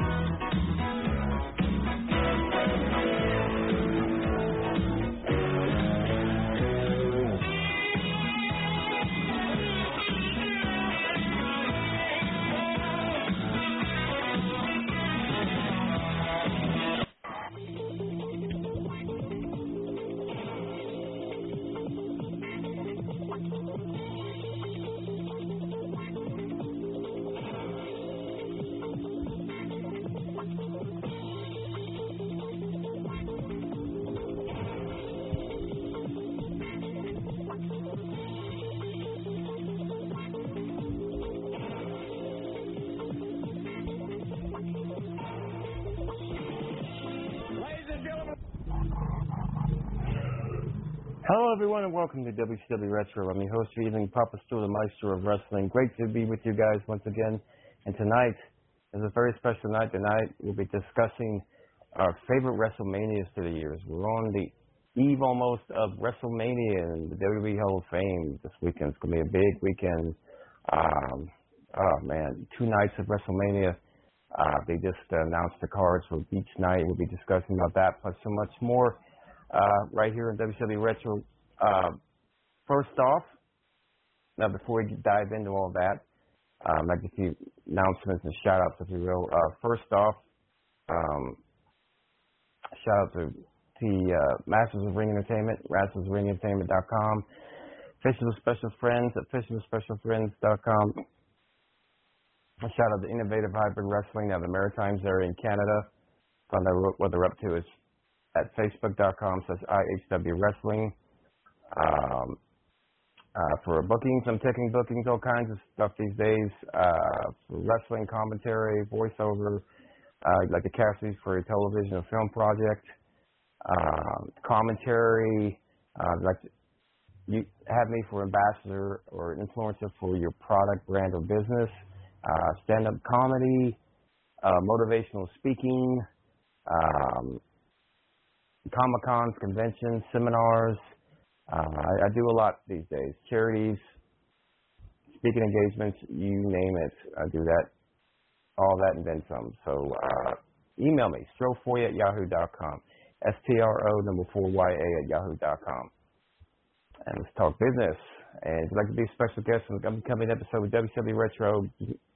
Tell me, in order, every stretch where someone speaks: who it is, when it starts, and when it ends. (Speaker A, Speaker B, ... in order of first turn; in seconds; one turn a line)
Speaker A: 51.2-70.2
Speaker A: 70.7-73.8
Speaker A: 74.3-79.0
Speaker A: 79.5-82.0
Speaker A: 82.7-83.3
Speaker A: 84.4-86.0
Speaker A: 86.6-90.2
Speaker A: 90.9-91.4
Speaker A: 92.8-97.2
Speaker A: 98.0-101.0
Speaker A: 102.6-105.9
Speaker A: 106.5-107.7
Speaker A: 108.3-111.0
Speaker A: 111.7-112.4
Speaker A: 113.3-119.6
Speaker A: 120.2-122.9
Speaker A: 123.6-126.5
Speaker A: 127.3-133.8
Speaker A: 134.4-136.0
Speaker A: 136.7-137.4
Speaker A: 138.7-140.9
Speaker A: 141.5-144.0
Speaker A: 145.1-147.7
Speaker A: 148.6-155.9
Speaker A: 157.1-162.0